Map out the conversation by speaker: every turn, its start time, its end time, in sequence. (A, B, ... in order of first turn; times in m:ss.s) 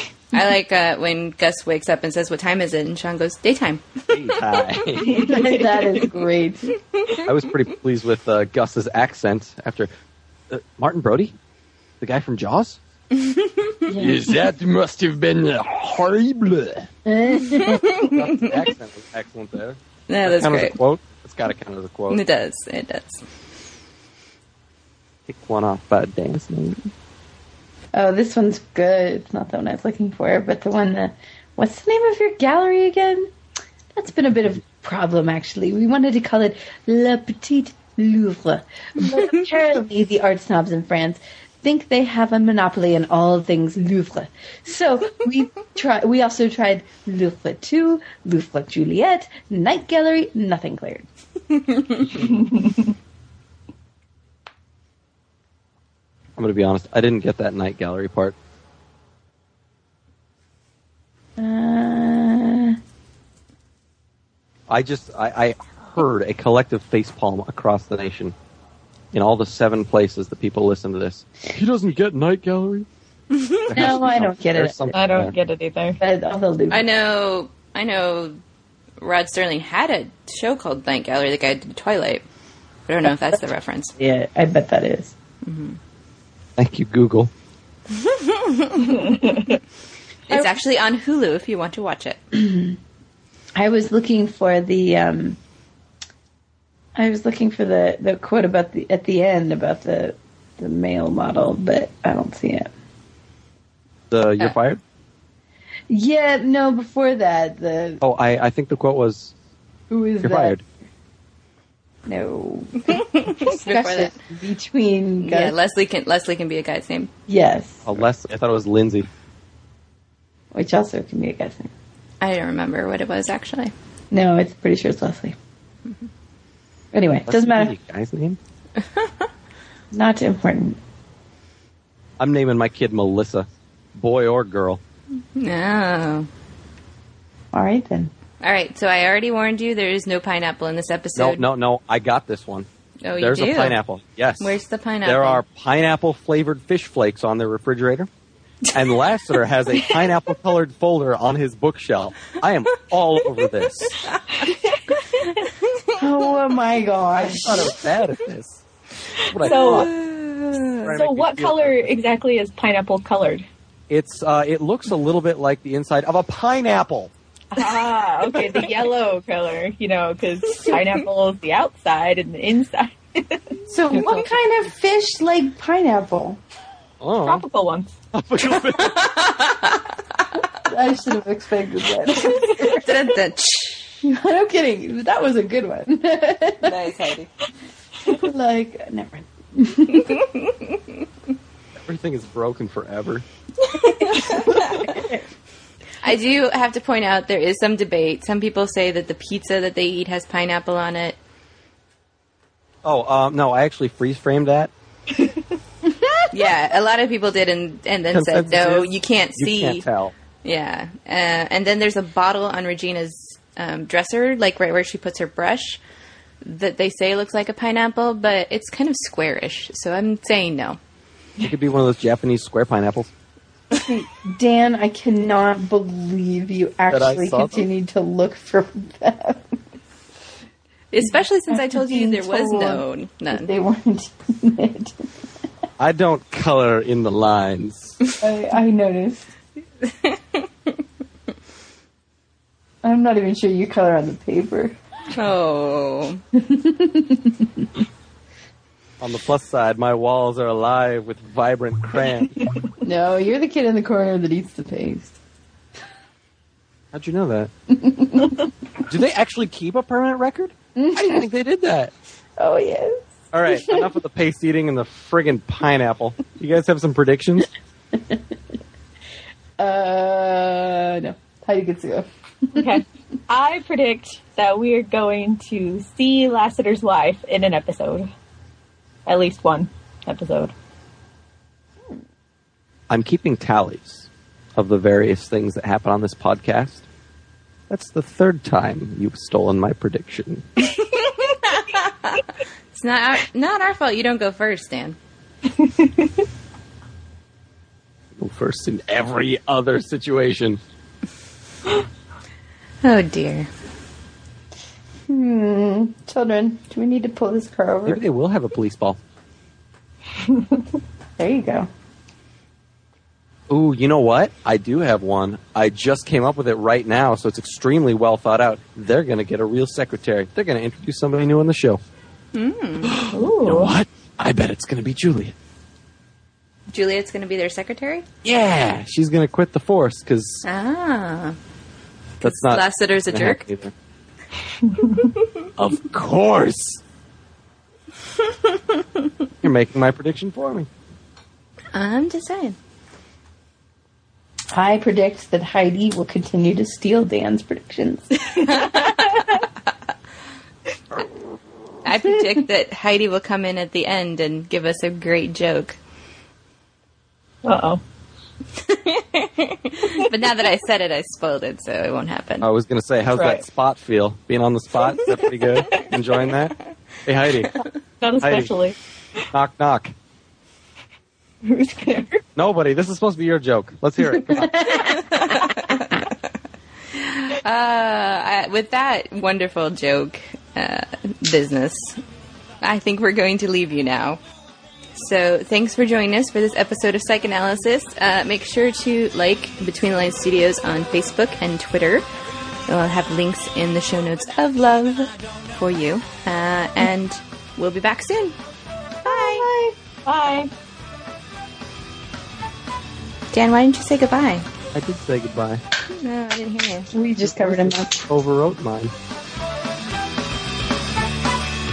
0:00.3-0:04.4 A
0:04.1-0:05.4 B
0:05.0-0:05.9 C
0:05.0-0:06.7 D
0:07.2-0:09.9 B
0:10.5-0:11.4 B
0:12.0-0:12.8 B
0:13.1-0:13.7 A
0:13.8-0:14.2 D
0:14.0-0:16.9 B
0:17.0-0:18.1 D
0:18.0-0:22.2 B
0:20.1-0:20.8 A
0:22.1-0:23.2 A
0:25.3-0:26.9 B
0:27.9-0:33.3 D
0:33.9-0:51.0 D
0:52.0-0:52.5 B
0:52.6-0:52.8 C
0:56.4-0:58.3 B
1:01.4-1:02.8 D
1:04.7-1:08.3 B
1:09.1-1:12.9 B
1:13.3-1:13.6 A
1:13.7-1:15.3 B
1:13.7-1:14.9 D
1:14.9-1:16.0 C
1:16.0-1:16.8 D
1:16.7-1:18.4 A
1:19.0-1:22.2 A
1:22.9-1:23.9 A
1:24.0-1:25.1 D
1:25.4-1:25.8 A
1:26.6-1:27.3 B
1:27.9-1:29.2 A
1:28.8-1:29.6 C
1:30.3-1:32.2 A
1:32.3-1:32.8 D
1:33.6-1:35.4 D
1:37.0-1:42.7 D
1:44.1-1:44.8 B
1:45.9-1:48.0 D
1:48.0-1:49.3 B
1:49.9-1:50.6 D
1:50.2-1:50.6 B
1:52.0-1:55.6 D
1:52.9-1:54.1 A
1:55.2-1:57.1 A
1:57.3-1:58.0 D
1:57.8-1:59.1 B
2:00.5-2:01.7 D
2:02.2-2:03.7 A
2:04.1-2:05.4 D
2:06.9-2:07.7 D
2:07.3-2:08.4 B
2:08.8-2:09.2 A
2:09.9-2:10.8 D
2:12.2-2:14.8 B
2:15.3-2:16.3 A
2:17.5-2:18.1 D
2:18.4-2:21.4 A
2:21.2-2:28.1 B
2:23.0-2:23.8 A
2:24.4-2:25.4 A
2:28.7-2:34.1 B
2:34.4-2:34.8 C
2:36.0-2:37.8 D
2:37.2-2:38.6 B
2:39.2-2:40.0 B
2:39.4-2:39.9 C
2:39.4-2:40.9 A
2:40.7-2:41.9 B
2:40.9-2:43.4 C
2:43.9-2:47.1 B
2:47.5-2:54.2 C
2:53.7-2:56.4 D
2:57.0-2:57.4 B
2:57.2-2:57.9 C
2:58.1-2:59.2 B
2:58.6-2:59.9 A
3:00.6-3:03.2 D
3:02.5-3:04.0 A
3:04.0-3:06.7 D
3:06.6-3:07.3 A
3:08.0-3:10.3 D
3:11.8-3:13.2 B
3:13.7-3:15.0 A
3:14.1-3:15.2 D
3:16.0-3:21.2 A
3:22.8-3:24.7 B
3:25.9-3:26.2 D
3:26.3-3:29.8 A
3:28.1-3:30.1 B
3:30.4-3:35.8 A
3:36.4-3:40.8 A
3:41.4-3:43.1 B
3:43.7-3:49.4 D
3:46.9-3:47.7 B
3:50.9-3:53.5 A
3:51.5-3:55.0 D
3:55.8-3:58.0 B
3:58.2-3:59.3 D
3:59.8-4:00.4 A
4:02.8-4:04.8 D
4:05.1-4:06.2 A
4:06.3-4:07.6 D
4:09.0-4:12.4 B
4:12.8-4:15.2 D
4:16.9-4:17.5 B
4:17.7-4:18.4 D
4:18.9-4:21.9 B
4:20.8-4:21.2 D
4:22.4-4:23.9 D
4:23.3-4:27.5 B
4:27.9-4:28.2 D
4:29.6-4:32.6 D
4:32.5-4:38.1 C
4:39.0-4:40.5 C
4:42.9-4:46.8 B
4:47.7-4:50.5 B
4:50.6-4:55.0 A
4:55.6-4:56.1 C
4:58.2-5:00.6 B
5:02.8-5:03.5 A
5:05.1-5:08.0 D
5:07.8-5:09.0 B
5:11.2-5:11.7 D
5:13.5-5:21.8 B
5:22.3-5:22.9 A
5:22.8-5:25.3 B
5:23.1-5:23.8 C
5:26.7-5:28.0 A
5:28.2-5:30.4 B
5:30.4-5:31.4 A
5:32.2-5:33.7 B
5:32.2-5:33.4 A
5:34.6-5:35.0 C
5:35.6-5:36.8 B
5:39.4-5:40.7 B
5:41.7-5:42.6 A
5:44.5-5:48.2 D
5:48.4-5:49.4 A
5:51.8-5:55.8 A
5:57.4-5:57.8 C
5:58.6-6:02.5 A
6:02.4-6:07.5 B
6:03.1-6:03.4 C
6:08.0-6:08.8 C
6:08.2-6:08.5 B
6:09.3-6:09.9 B
6:11.4-6:12.2 C
6:12.4-6:14.7 B
6:14.3-6:15.1 D
6:14.7-6:16.1 A
6:16.9-6:22.0 A
6:22.6-6:24.2 A
6:24.9-6:32.0 A
6:32.7-6:38.4 A
6:39.0-6:39.5 A
6:39.1-6:40.5 C
6:43.3-6:44.4 A
6:44.7-6:45.6 B
6:45.9-6:46.9 A
6:46.9-6:48.1 D
6:47.2-6:48.9 B